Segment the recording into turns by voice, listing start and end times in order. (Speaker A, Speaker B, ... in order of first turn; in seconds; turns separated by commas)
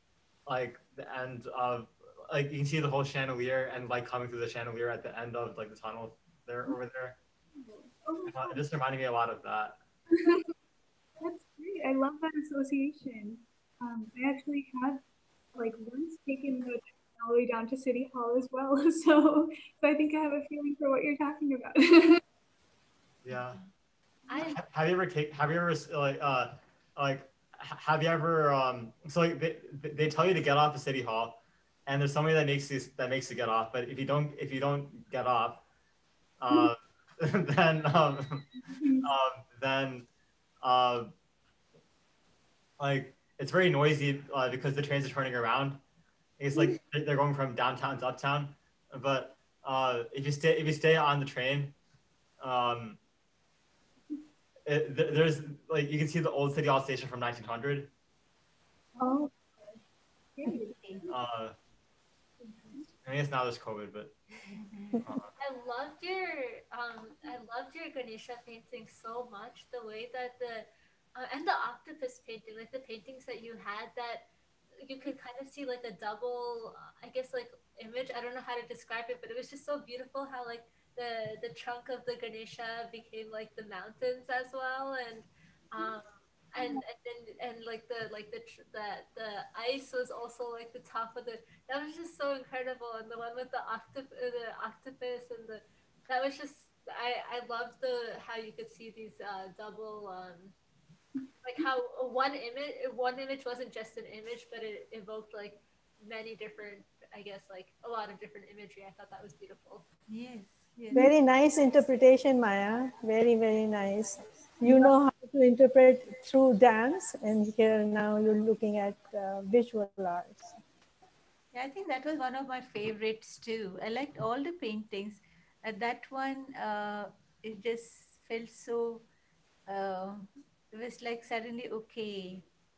Speaker A: 0.5-7.2, Speaker B: 7.5-8.6, Speaker A: 8.2-9.8, Speaker B: 10.2-10.5, Speaker B: 11.2-15.0, Speaker B: 15.5-22.2, Speaker A: 23.2-23.6, Speaker C: 24.3-24.6, Speaker A: 24.3-35.6, Speaker A: 36.4-38.4, Speaker B: 38.6-39.1, Speaker A: 39.0-40.0, Speaker A: 40.6-41.1, Speaker A: 42.8-45.8, Speaker A: 46.4-51.7, Speaker A: 52.4-53.0, Speaker A: 54.6-57.9, Speaker B: 59.0-59.7, Speaker B: 60.4-60.8, Speaker D: 60.7-61.0, Speaker A: 61.1-61.5, Speaker B: 62.4-62.8, Speaker A: 63.0-64.1, Speaker D: 64.5-65.0, Speaker A: 65.0-65.3, Speaker C: 65.4-74.2, Speaker C: 74.8-100.5, Speaker C: 101.4-109.9, Speaker D: 110.1-111.1, Speaker E: 110.9-120.6, Speaker B: 114.6-114.9, Speaker D: 121.5-129.1, Speaker D: 129.7-132.4